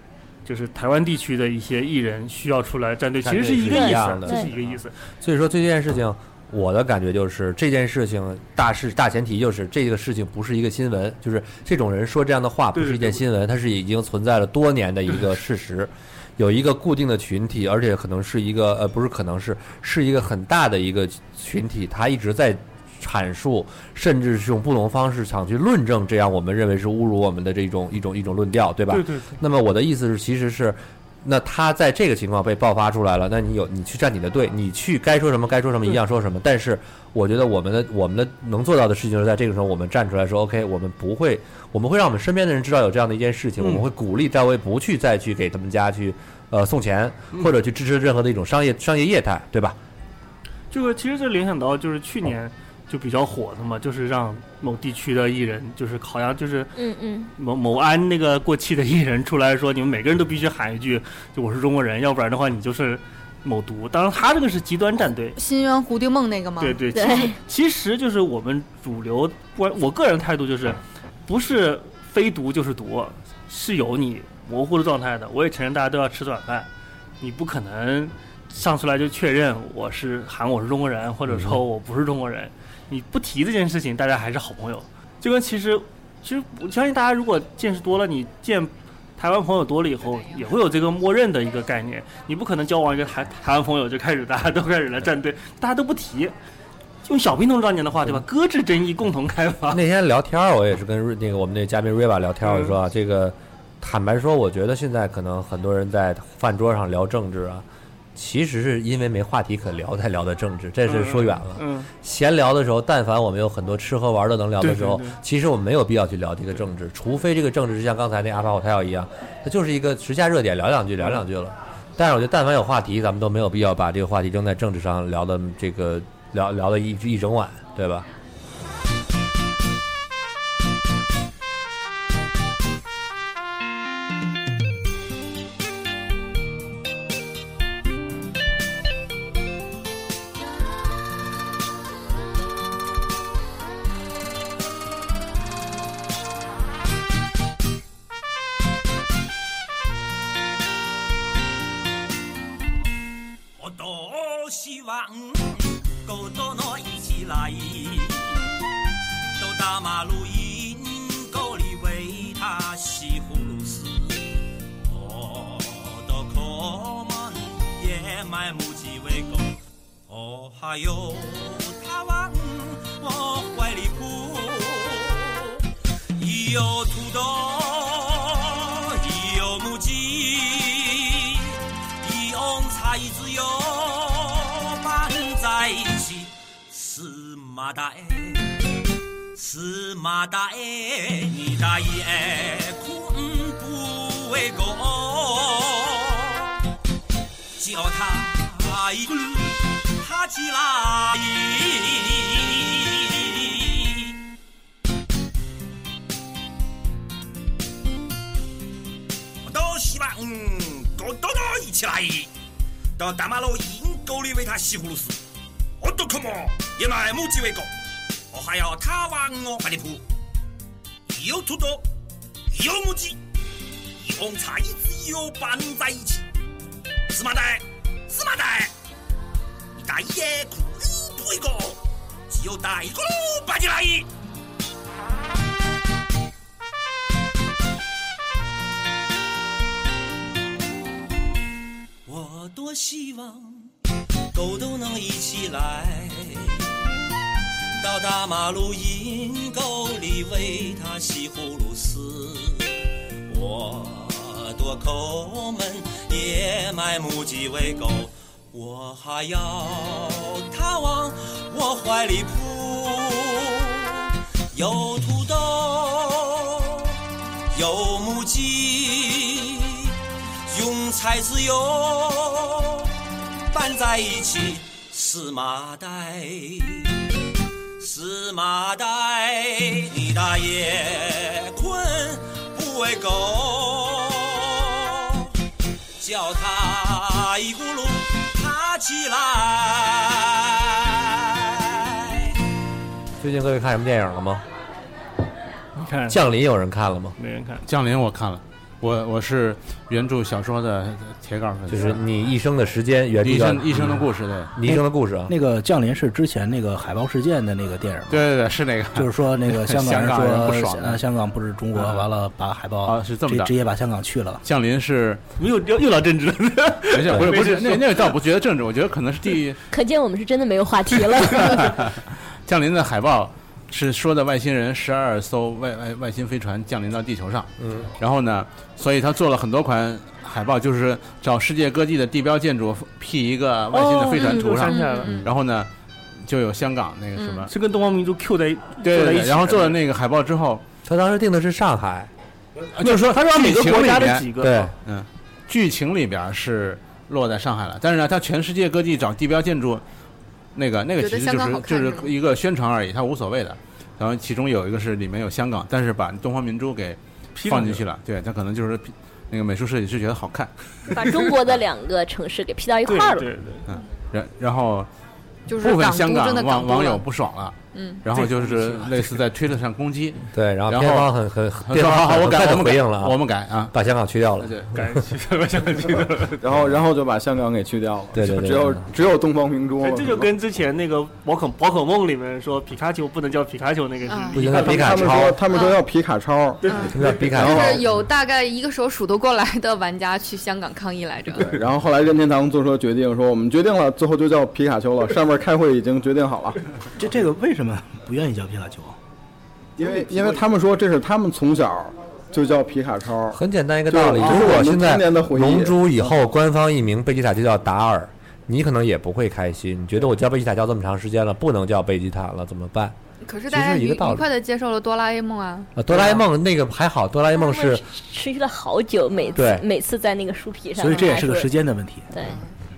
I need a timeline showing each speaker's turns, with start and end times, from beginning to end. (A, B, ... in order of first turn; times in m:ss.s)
0:00.4-0:04.9 A
0:03.2-0:49.8 B
0:03.7-0:04.5 C
0:12.7-0:13.2 A
0:28.9-0:29.4 A
0:50.7-0:56.7 A
0:56.7-0:57.3 C
0:57.4-1:05.4 A
1:05.4-1:06.8 D
1:06.6-1:16.7 A
1:06.9-1:07.4 C
1:17.2-1:36.3 A
1:21.3-1:21.6 B
1:37.0-1:39.8 A
1:39.7-2:08.1 B
1:42.5-1:42.7 A
1:50.9-1:51.9 A
1:54.6-1:55.2 A
2:33.6-2:38.4 E
2:39.4-2:44.2 E
2:44.8-2:55.6 E
2:56.2-3:08.5 E
3:09.3-3:16.5 E
3:17.6-3:24.1 E
3:29.4-3:32.3 E
3:33.0-3:35.2 E
3:35.8-3:37.7 E
3:38.3-3:40.0 E
3:41.1-3:41.9 E
3:42.5-3:43.2 E
3:44.0-3:46.2 E
3:47.1-3:48.7 E
3:49.7-3:54.1 E
4:02.0-4:03.6 E
4:04.3-4:06.6 E
4:07.8-4:12.7 E
4:13.3-4:24.0 E
4:24.5-4:26.9 E
4:27.5-4:29.9 E
4:30.5-4:32.9 E
4:33.5-4:36.9 E
4:37.8-4:45.2 E
4:46.0-4:52.3 E
4:53.2-4:54.4 B
4:55.8-4:56.2 A
4:56.1-4:57.2 B
4:57.2-4:57.6 A
4:57.6-5:02.0 F
5:01.7-5:05.3 B
5:03.2-5:04.5 F
5:04.7-5:08.2 G
5:08.1-5:11.0 F
5:08.9-5:14.4 G
5:11.7-5:12.1 F
5:12.8-5:13.5 F
5:14.4-5:15.2 F
5:15.4-5:18.1 A
5:16.9-5:19.6 F
5:19.7-5:21.7 C
5:21.5-5:35.7 F
5:27.6-5:27.9 B
5:33.7-5:35.2 A
5:34.7-5:35.3 D
5:36.2-5:37.5 F
5:37.2-5:37.4 D
5:37.5-5:39.8 A
5:38.8-5:40.6 F
5:40.8-5:42.1 B
5:42.7-5:44.3 F
5:42.8-5:44.7 A
5:44.4-5:44.7 B
5:44.8-5:49.8 F
5:50.5-6:00.5 F
5:51.0-5:52.1 D
5:57.4-5:57.8 A
6:00.9-6:03.2 C
6:02.8-6:03.7 A
6:03.7-6:04.9 F
6:05.5-6:07.0 D
6:05.5-6:11.1 F
6:07.7-6:08.0 D
6:08.1-6:09.2 A
6:10.3-6:13.2 B
6:11.6-6:13.7 F
6:13.7-6:14.6 B
6:14.4-6:14.7 F
6:14.7-6:16.4 A
6:16.4-6:20.3 H
6:18.1-6:18.9 B
6:19.8-6:25.2 A
6:24.0-6:24.4 D
6:24.3-6:25.4 B
6:24.5-6:27.8 H
6:25.5-6:25.8 D
6:26.6-6:31.5 D
6:26.9-6:27.9 B
6:31.4-6:36.6 H
6:37.0-6:39.0 G
6:39.8-6:45.8 H
6:43.3-6:53.0 B
6:44.1-6:44.6 G
6:53.2-6:55.7 D
6:53.5-6:54.2 B
6:55.8-6:57.8 B
6:57.3-7:01.5 C
6:59.3-6:59.6 B
7:00.8-7:02.1 G
7:02.1-7:02.4 C